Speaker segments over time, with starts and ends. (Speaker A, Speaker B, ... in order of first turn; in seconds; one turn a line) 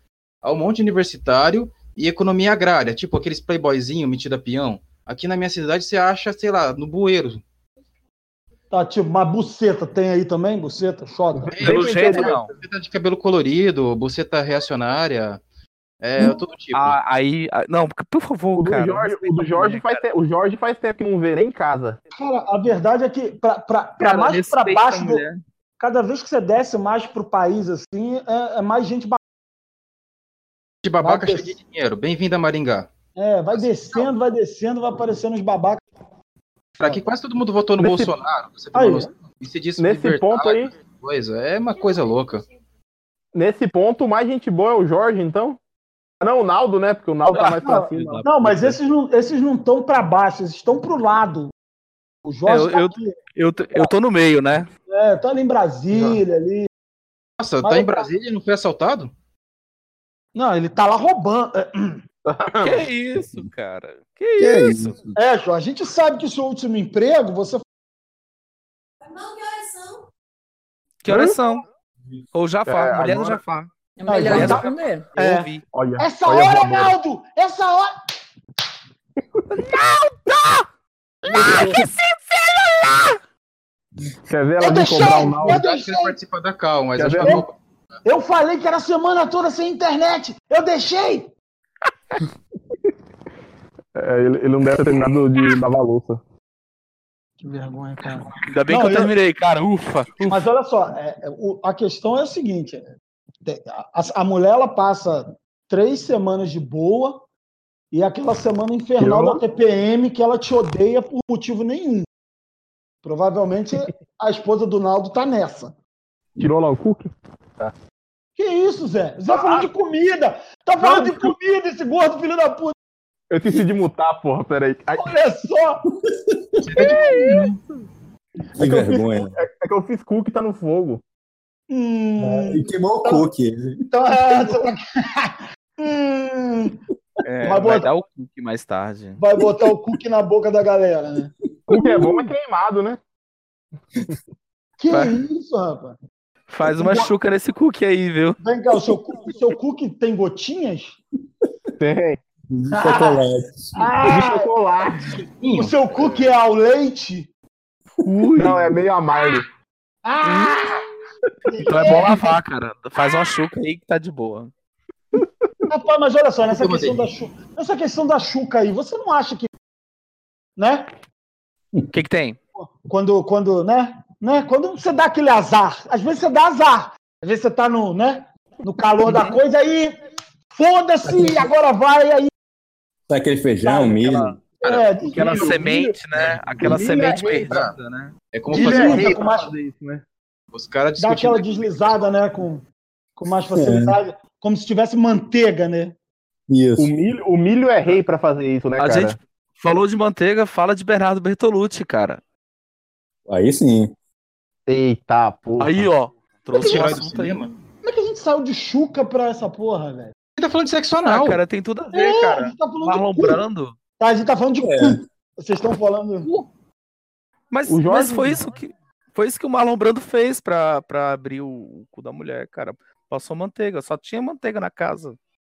Speaker A: 0.4-7.4
Speaker B: 8.7-11.8
Speaker C: 11.3-12.4
Speaker A: 11.5-15.4
Speaker D: 11.6-12.5
Speaker A: 16.0-16.9
Speaker D: 16.7-20.0
Speaker C: 18.6-22.0
Speaker B: 22.1-25.2
Speaker D: 24.0-25.4
Speaker B: 25.8-29.2
Speaker A: 30.8-32.9
Speaker B: 31.0-31.5
Speaker B: 33.2-35.8
Speaker A: 33.5-34.1
Speaker A: 36.8-42.4
Speaker C: 37.8-38.1
Speaker B: 38.7-39.1
Speaker C: 39.8-40.7
Speaker C: 43.3-45.6
Speaker C: 46.2-48.8
Speaker B: 47.4-51.5
Speaker B: 52.2-53.2
Speaker D: 52.5-54.7
Speaker B: 54.9-56.7
Speaker C: 55.9-56.2
Speaker A: 57.4-59.1
Speaker B: 57.6-58.1
Speaker B: 60.4-62.0
Speaker C: 62.3-62.9
Speaker D: 62.6-65.0
Speaker E: 64.4-65.2
Speaker B: 65.2-67.6
Speaker F: 69.2-70.0
Speaker D: 71.0-71.6
Speaker C: 71.1-71.4
Speaker D: 72.3-73.7
Speaker C: 72.7-73.4
Speaker F: 74.0-75.1
Speaker B: 74.1-75.5
Speaker D: 74.2-75.7
Speaker C: 75.3-76.9
Speaker B: 76.0-77.9
Speaker C: 79.4-79.7
Speaker D: 79.7-80.6
Speaker D: 81.3-83.2
Speaker C: 81.4-81.8
Speaker C: 84.3-85.6
Speaker B: 84.6-86.2
Speaker A: 85.4-87.6
Speaker C: 87.0-87.4
Speaker B: 88.0-91.3
Speaker C: 94.0-96.2
Speaker B: 97.4-99.1
Speaker D: 98.4-100.5
Speaker B: 100.2-102.9
Speaker B: 103.4-107.2
Speaker B: 107.9-112.1
Speaker C: 109.0-109.4
Speaker B: 113.0-115.7
Speaker C: 116.4-117.7
Speaker B: 118.4-122.8
Speaker C: 119.3-119.7
Speaker C: 120.8-121.3
Speaker C: 123.3-125.1
Speaker B: 125.0-125.8
Speaker E: 126.3-126.6
Speaker A: 126.7-127.6
Speaker C: 126.8-127.5
Speaker C: 128.6-131.0
Speaker E: 128.6-129.4
Speaker B: 131.7-133.3
Speaker E: 132.2-133.8
Speaker B: 133.8-136.8
Speaker D: 137.3-139.2
Speaker B: 137.4-137.9
Speaker B: 139.2-141.3
Speaker C: 141.7-143.0
Speaker B: 144.8-146.0
Speaker D: 144.9-145.2
Speaker D: 146.5-148.4
Speaker B: 146.6-147.1
Speaker B: 148.4-151.0
Speaker C: 151.8-152.2
Speaker E: 152.5-153.9
Speaker B: 152.8-153.2
Speaker B: 153.8-154.5
Speaker C: 154.0-155.3
Speaker A: 155.4-155.7
Speaker B: 155.5-157.3
Speaker C: 155.9-156.3
Speaker C: 158.0-159.5
Speaker B: 160.1-160.8
Speaker D: 160.3-160.7
Speaker B: 161.5-162.3
Speaker D: 161.6-164.5
Speaker B: 165.7-169.5
Speaker A: 166.4-167.1
Speaker B: 170.6-170.9
Speaker D: 171.9-172.4
Speaker B: 172.6-180.0
Speaker B: 180.5-182.3
Speaker C: 181.2-181.4
Speaker E: 183.1-184.4
Speaker B: 183.7-185.6
Speaker A: 184.6-184.9
Speaker C: 185.1-186.0
Speaker D: 185.1-189.0
Speaker A: 186.2-187.8
Speaker C: 186.6-187.6
Speaker A: 188.3-189.1
Speaker B: 188.5-189.5
Speaker C: 188.6-190.0
Speaker A: 190.5-192.1
Speaker B: 191.0-192.7
Speaker B: 193.2-196.0
Speaker E: 193.5-194.0
Speaker E: 196.5-196.9
Speaker C: 196.8-199.2
Speaker D: 198.8-202.2
Speaker E: 203.3-203.9
Speaker C: 204.7-205.9
Speaker D: 205.6-207.5
Speaker A: 206.6-207.5
Speaker B: 207.8-210.1
Speaker A: 210.4-211.4
Speaker D: 211.1-213.8
Speaker B: 211.9-213.4
Speaker B: 214.0-216.3
Speaker E: 214.6-215.0
Speaker A: 216.2-216.5
Speaker D: 217.5-225.2
Speaker C: 217.7-218.5